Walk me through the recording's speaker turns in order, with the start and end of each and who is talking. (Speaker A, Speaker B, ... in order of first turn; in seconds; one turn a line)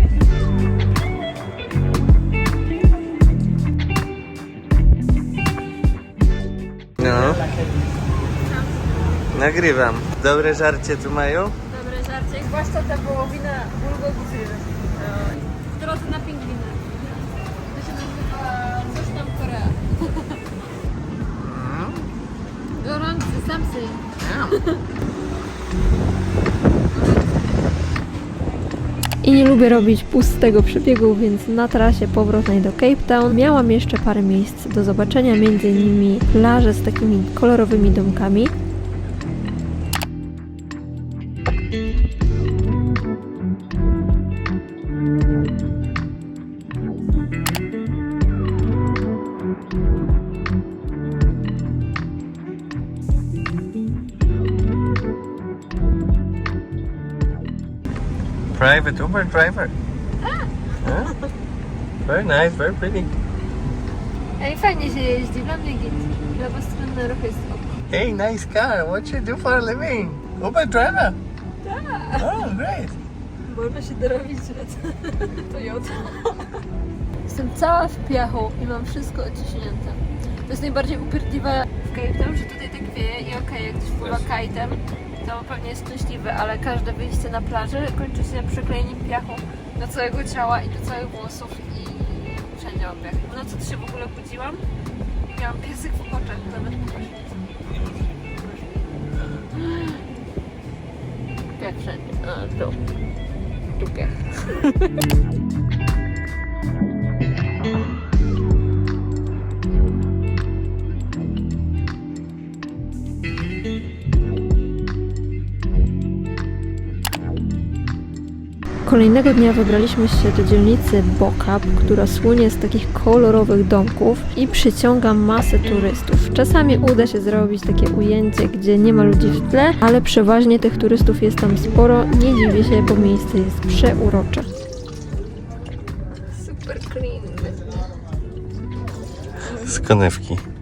Speaker A: 7.0-7.5
Speaker A: 9.3-11.5
Speaker B: 11.7-17.0
Speaker B: 17.7-19.8
Speaker A: 21.4-22.0
Speaker B: 22.8-24.1
Speaker A: 24.2-24.6
Speaker B: 29.2-38.5
Speaker A: 58.5-59.7
Speaker A: 60.8-61.1
Speaker A: 62.0-63.1
Speaker B: 64.4-67.6
Speaker A: 67.9-71.2
Speaker B: 71.8-72.2
Speaker A: 72.2-72.9
Speaker B: 73.5-76.2
Speaker B: 77.3-94.6
Speaker B: 95.3-97.2
Speaker B: 101.6-102.7
Speaker B: 103.8-104.1
Speaker B: 118.9-134.5
Speaker B: 136.4-137.5
Speaker A: 139.5-140.4